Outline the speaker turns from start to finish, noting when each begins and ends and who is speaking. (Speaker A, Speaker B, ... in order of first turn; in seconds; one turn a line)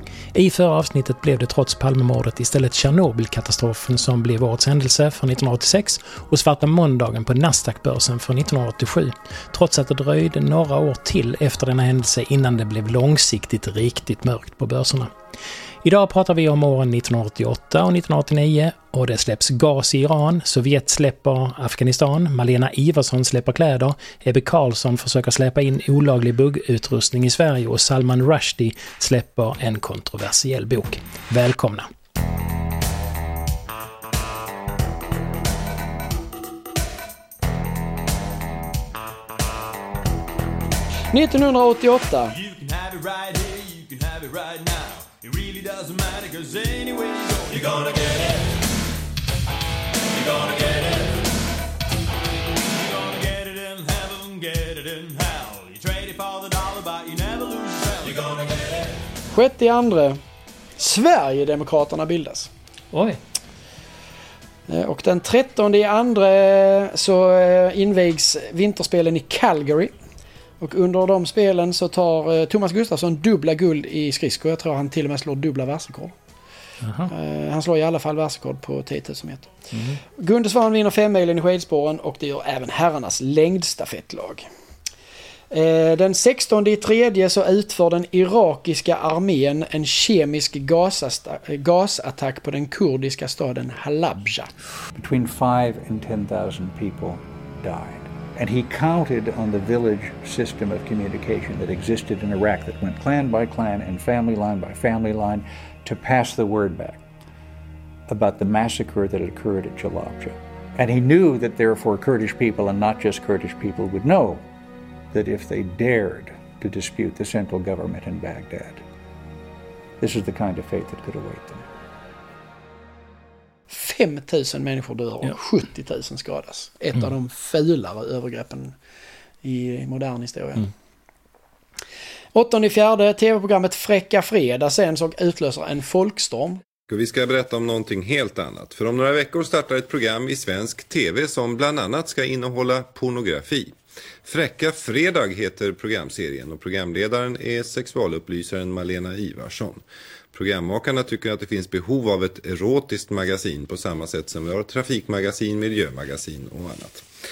Speaker A: 0.3-15.1
Speaker A: 15.8-31.9
Speaker B: 41.1-42.4
Speaker C: 42.3-48.4
Speaker C: 50.1-51.2
Speaker C: 52.7-58.7
Speaker B: 59.3-60.2
Speaker B: 60.8-62.5
Speaker A: 62.9-63.2
Speaker B: 64.7-69.9
Speaker B: 70.6-76.1
Speaker A: 76.8-77.1
Speaker B: 77.1-84.5
Speaker A: 79.7-80.0
Speaker B: 85.5-94.5
Speaker D: 95.0-107.0
Speaker D: 108.1-114.4
Speaker D: 115.1-118.8
Speaker D: 120.0-121.7
Speaker B: 123.7-128.8
Speaker B: 129.4-130.7
Speaker B: 132.3-136.6
Speaker E: 136.9-149.8
Speaker E: 150.3-157.1